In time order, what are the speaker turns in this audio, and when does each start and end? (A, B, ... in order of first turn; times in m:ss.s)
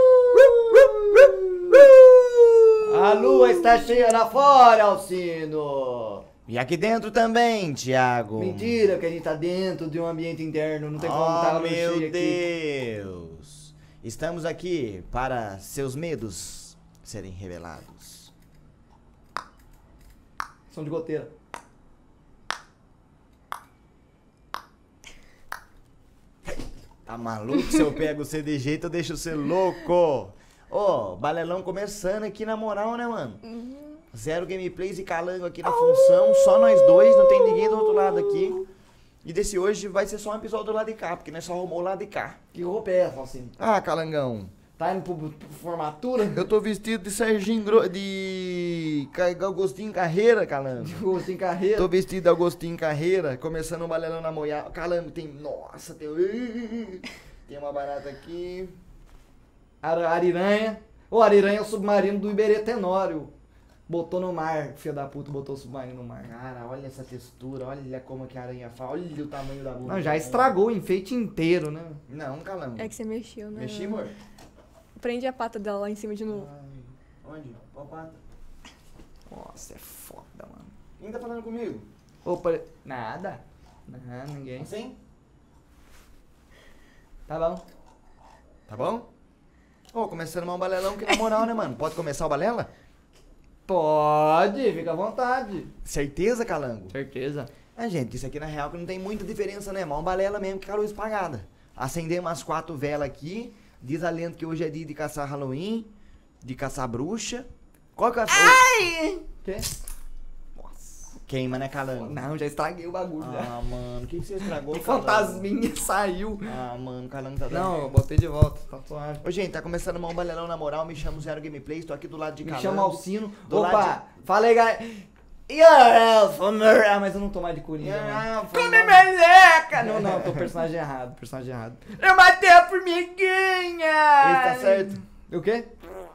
0:00.4-0:03.8 A
0:02.8-0:06.2 B
0:06.5-0:08.8 A
0:08.4-0:12.5 B
0:11.0-0:18.3 A
0:20.7-0:21.3 B
0:26.5-0:33.4 A
0:33.5-0:34.0 C
0:34.1-0:38.6 A
0:35.9-0:38.4 B
0:39.2-0:42.4 A
0:42.5-0:43.6 B
0:43.6-0:44.5 A
0:44.8-0:46.4 B
0:46.3-0:51.0 A
0:50.8-0:51.9 B
0:51.8-0:58.8 A
0:59.8-1:03.3 B
1:03.9-1:06.3 B
1:06.2-1:10.6 A
1:09.9-1:12.0 B
1:12.1-1:12.9 A
1:12.8-1:14.0 C
1:13.5-1:14.1 A
1:15.0-1:16.5 C
1:16.3-1:18.2 A
1:19.3-1:20.7 B
1:21.0-1:21.9 A
1:22.2-1:24.7 B
1:24.6-1:25.0 A
1:27.3-1:27.6 B
1:28.7-1:29.1 A
1:29.9-1:32.7 A
1:33.7-1:35.7 B
1:35.8-1:37.0 A
1:36.9-1:37.5 B
1:37.8-1:45.9 A
1:46.4-1:48.7 A
1:48.3-1:49.7 B
1:50.6-1:51.1 B
1:51.3-1:52.2 A
1:52.0-1:53.5 B
1:53.2-1:55.5 A
1:54.7-1:56.5 B
1:56.4-1:57.8 A
1:57.5-1:59.2 B
1:59.2-2:04.0 A
2:02.4-2:15.7 B
2:07.8-2:09.1 A
2:09.8-2:10.5 A
2:14.2-2:15.0 A